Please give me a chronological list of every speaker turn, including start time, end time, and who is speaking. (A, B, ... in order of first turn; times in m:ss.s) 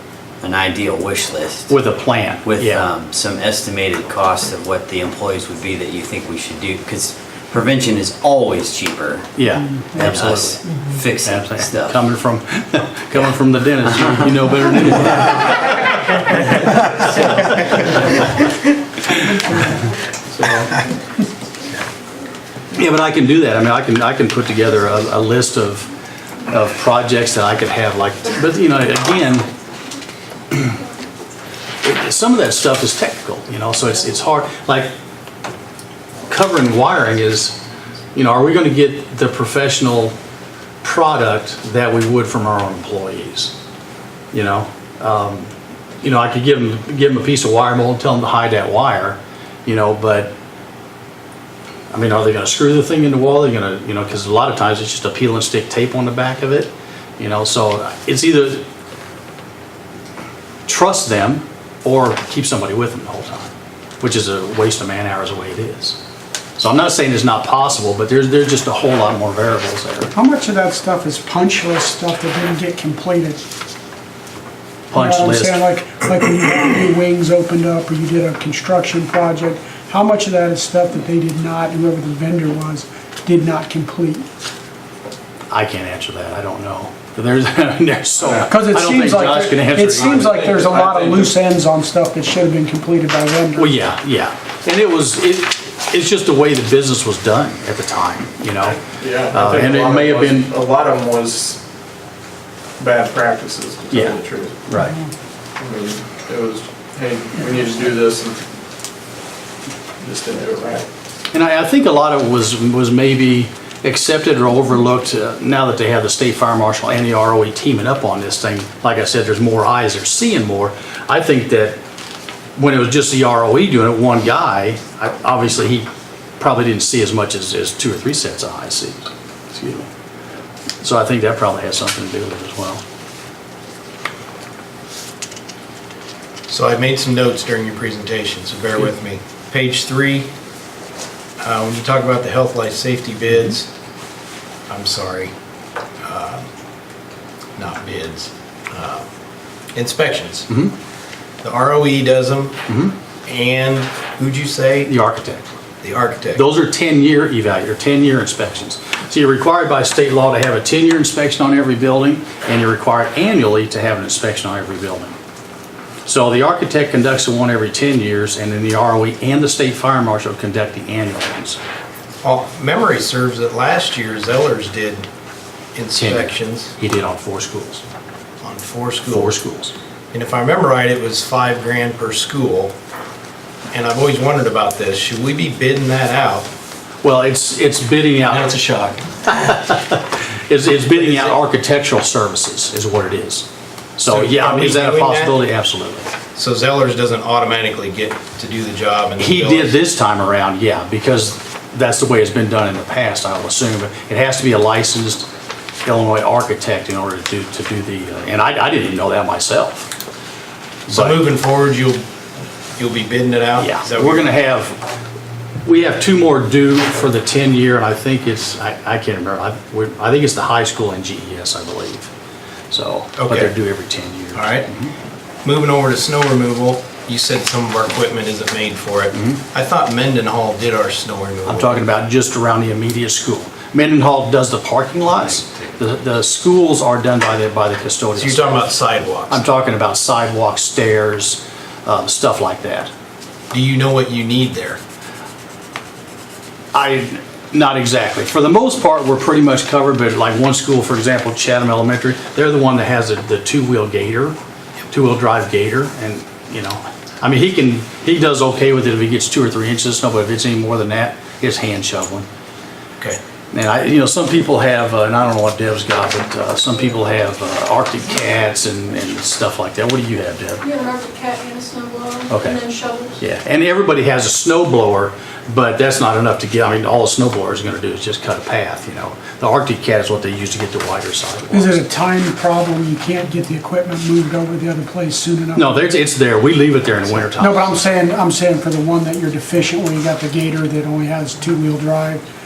0:00.4-0:01.7 A
0:01.7-0:02.8 B
0:02.4-0:09.3 A
0:09.4-0:10.6 B
0:09.9-0:12.0 A
0:11.2-0:15.7 B
0:20.4-0:20.6 B
0:22.7-0:25.9 B
0:26.5-0:29.5 B
0:30.5-0:30.8 B
0:31.8-0:34.9 B
0:36.3-0:37.6 B
0:38.1-0:40.1 B
0:40.8-0:43.5 B
0:44.3-0:50.3 B
0:51.9-0:58.6 B
1:00.7-1:03.5 B
1:04.0-1:06.0 B
1:06.6-1:10.1 B
1:10.1-1:13.4 C
1:14.9-1:15.6 B
1:14.9-1:24.3 C
1:25.5-1:30.3 B
1:28.4-1:33.7 C
1:30.0-1:31.4 D
1:33.6-1:40.5 B
1:38.8-1:41.6 D
1:42.8-1:44.7 D
1:43.9-1:45.0 B
1:45.6-1:48.4 D
1:50.0-1:50.9 D
1:51.3-2:01.8 B
2:02.6-2:05.9 B
2:06.4-2:09.9 B
2:10.8-2:12.8 B
2:16.5-2:20.3 E
2:21.4-2:23.7 E
2:24.7-2:25.3 E
2:26.0-2:26.5 E
2:27.6-2:29.0 E
2:29.7-2:30.5 E
2:30.5-2:30.7 B
2:31.4-2:32.6 E
2:32.7-2:32.9 B
2:33.2-2:34.9 E
2:34.8-2:35.4 B
2:35.8-2:36.4 E
2:36.3-2:45.2 B
2:46.0-2:51.6 B
2:52.2-2:55.1 E
2:55.8-2:56.8 E
2:56.0-2:57.8 B
2:58.4-2:59.4 E
2:59.1-2:59.7 B
3:00.1-3:02.7 E
3:03.7-3:06.5 E
3:07.0-3:16.1 B
3:08.3-3:08.6 E
3:10.9-3:11.4 E
3:14.0-3:15.4 E
3:16.3-3:19.8 E
3:19.2-3:25.3 B
3:25.8-3:29.9 B
3:30.9-3:31.2 B
3:30.9-3:32.0 E
3:32.8-3:34.3 E
3:33.6-3:34.8 B
3:35.6-3:42.1 B
3:42.7-3:44.9 B
3:43.2-3:43.5 E
3:44.3-3:44.7 E
3:45.4-3:51.8 E
3:51.5-3:58.7 B
3:58.2-3:59.4 E
3:59.3-4:02.9 B
4:03.5-4:04.8 E
4:06.7-4:14.3 B
4:14.9-4:22.3 B
4:23.5-4:30.7 B
4:30.6-4:33.2 F
4:32.3-4:32.7 B
4:33.2-4:41.8 B
4:41.5-4:45.9 C
4:45.6-4:47.7 B
4:47.3-4:52.2 C